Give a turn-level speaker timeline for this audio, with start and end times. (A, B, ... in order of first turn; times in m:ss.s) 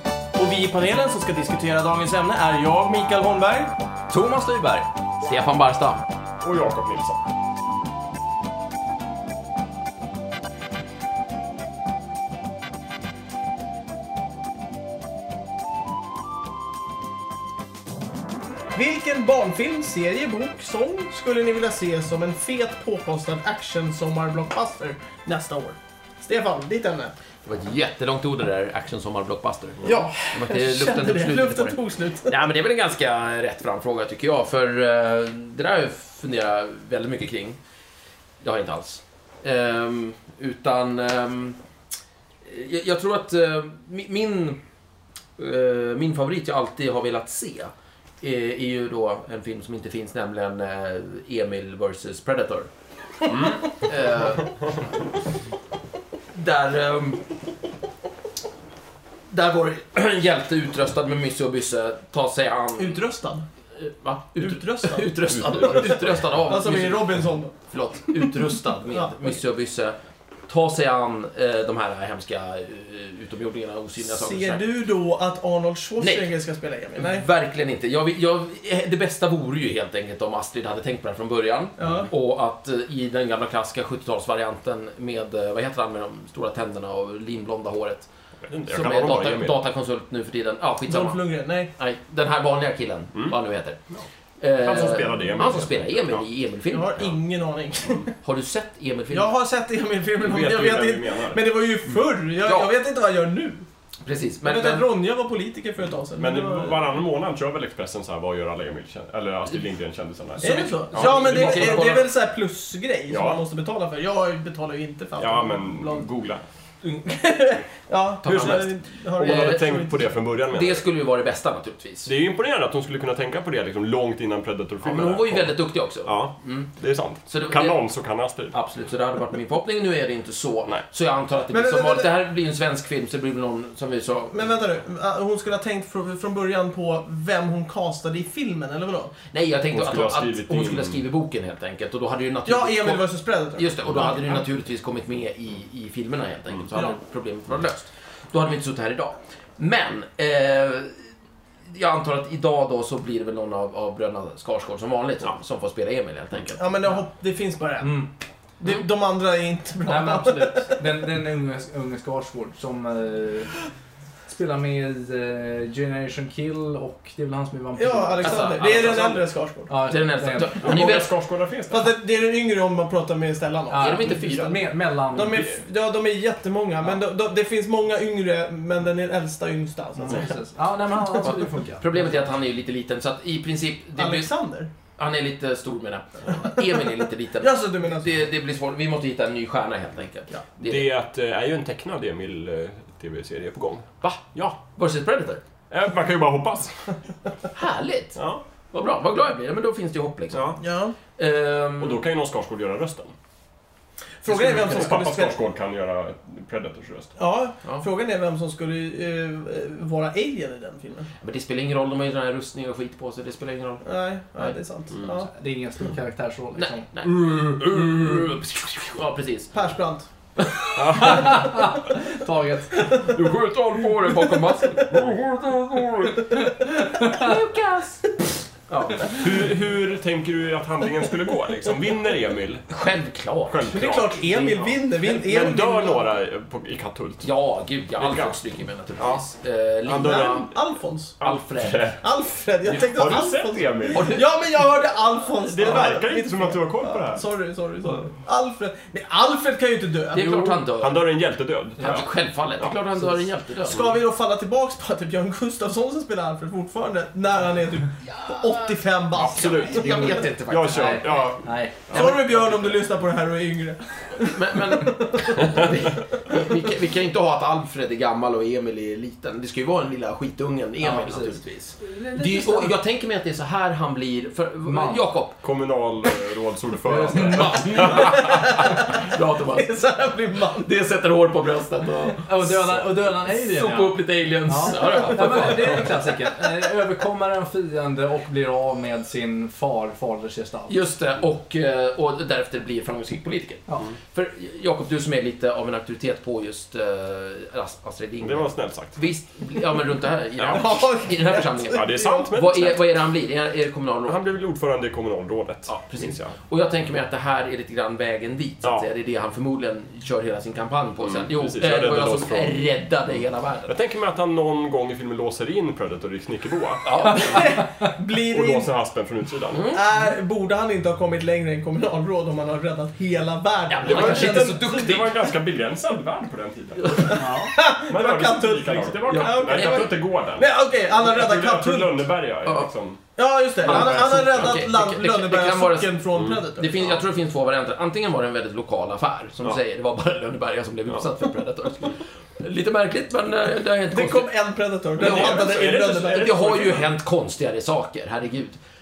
0:00.4-0:03.7 A
0:04.1-0:04.9 B
0:05.2-0:06.0 C
0:06.4-0:07.2 D
0:18.7-0:27.1 A
0:27.4-0:37.6 C
0:29.8-0:32.4 A
0:38.4-0:41.6 C
0:42.4-0:44.6 C
0:45.4-0:52.7 C
0:53.2-0:54.8 C
0:53.3-0:53.6 D
0:56.3-0:57.2 C
0:59.3-1:03.0 C
1:02.8-1:03.4 A
1:03.8-1:10.0 C
1:04.4-1:07.5 A
1:05.4-1:06.2 D
1:10.5-1:14.6 C
1:14.0-1:17.2 A
1:16.0-1:16.3 C
1:17.0-1:28.1 C
1:21.8-1:22.1 A
1:21.8-1:22.1 D
1:28.4-1:29.6 D
1:28.7-1:31.2 C
1:30.9-1:31.7 A
1:31.7-1:33.8 C
1:33.9-1:36.2 D
1:34.4-1:37.0 C
1:36.7-1:38.1 A
1:38.2-1:39.3 C
1:39.1-1:43.6 A
1:40.2-1:41.4 D
1:42.4-1:42.7 C
1:44.0-1:44.9 C
1:44.4-1:46.8 A
1:46.2-1:52.0 D
1:50.4-1:52.1 C
1:50.4-1:56.0 A
1:53.1-1:53.4 D
1:55.2-1:56.4 D
1:56.8-2:00.1 A
1:58.2-1:59.8 C
1:58.2-2:00.8 D
2:00.5-2:02.1 C
2:02.0-2:08.6 D
2:04.8-2:06.7 C
2:07.2-2:07.8 C
2:08.5-2:14.4 C
2:11.5-2:12.1 A
2:14.3-2:19.2 A
2:19.3-2:31.0 C
2:19.7-2:21.0 D
2:22.4-2:24.4 A
2:31.7-2:36.6 C
2:36.6-2:38.1 A
2:37.8-2:38.1 B
2:38.6-2:40.8 A
2:39.8-2:43.5 B
2:44.3-2:48.8 B
2:47.8-2:49.8 A
2:48.2-2:51.1 C
2:48.7-2:49.1 D
2:49.7-2:50.6 B
2:50.5-2:51.9 D
2:51.7-2:54.2 A
2:53.7-2:55.4 B
2:53.8-2:54.7 C
2:55.1-3:00.3 A
2:55.1-2:55.6 D
3:00.0-3:02.0 B
3:01.0-3:04.3 C
3:04.0-3:04.7 A
3:05.0-3:10.8 C
3:07.4-3:08.1 A
3:10.6-3:13.9 D
3:14.0-3:15.4 C
3:15.7-3:16.9 D
3:17.5-3:20.6 C
3:18.2-3:18.4 D
3:20.3-3:20.6 D
3:20.6-3:20.9 A
3:21.2-3:22.0 C
3:21.8-3:23.1 D
3:24.2-3:25.4 A
3:24.3-3:27.1 D
3:24.3-3:25.0 C
3:27.2-3:31.1 A
3:31.2-3:33.8 C
3:33.8-3:35.3 A
3:34.9-3:35.2 D
3:35.3-3:36.9 B
3:36.6-3:39.5 C
3:39.5-3:40.1 A
3:40.8-3:41.7 D
3:41.0-3:42.9 B
3:42.9-3:43.2 A
3:43.1-3:45.0 C
3:44.9-3:46.2 D
3:47.0-3:47.3 B
3:47.0-3:48.0 C
3:48.7-3:49.3 C
3:49.0-3:52.7 D
3:52.7-3:54.7 C
3:53.5-3:57.3 D
3:53.7-3:56.1 A
3:57.2-4:00.5 C
3:58.0-3:58.4 D
3:59.0-3:59.2 D
3:59.8-4:00.5 D
3:59.9-4:01.2 A
4:01.2-4:02.0 D
4:01.2-4:02.0 C
4:02.0-4:10.7 A
4:02.6-4:03.3 C
4:02.9-4:04.2 D
4:03.9-4:04.6 C
4:05.4-4:07.3 D
4:05.6-4:05.9 C
4:10.1-4:11.0 C
4:10.7-4:12.8 D
4:11.8-4:13.9 C
4:13.7-4:20.2 A
4:19.2-4:21.2 C
4:19.2-4:22.8 D
4:19.7-4:21.8 B
4:21.9-4:26.5 A
4:24.2-4:35.4 C
4:30.8-4:32.7 B
4:34.6-4:35.0 B
4:35.4-4:38.5 D
4:36.9-4:37.9 B
4:37.1-4:39.8 C
4:37.8-4:40.7 A
4:40.6-4:45.8 C
4:42.2-4:50.8 B
4:44.8-4:45.4 A
4:50.7-5:04.2 C
4:58.2-4:59.0 D
5:00.5-5:02.3 A
5:01.7-5:02.9 D
5:04.1-5:06.4 D
5:05.7-5:13.8 C
5:11.0-5:12.7 D
5:13.7-5:17.2 D
5:16.8-5:17.5 C
5:17.2-5:18.7 A
5:18.2-5:19.6 D
5:19.5-5:19.9 C
5:19.7-5:24.9 A
5:23.7-5:25.3 C
5:23.8-5:27.3 D
5:24.0-5:24.5 B
5:26.8-5:27.3 C
5:27.1-5:32.1 A
5:27.1-5:27.5 B
5:27.8-5:33.0 D
5:29.1-5:30.0 C
5:32.4-5:32.7 C
5:33.2-5:36.9 A
5:33.6-5:34.6 D
5:33.6-5:44.3 C
5:36.2-5:37.0 D
5:43.9-5:46.3 A
5:44.9-5:48.6 C
5:45.0-5:46.9 D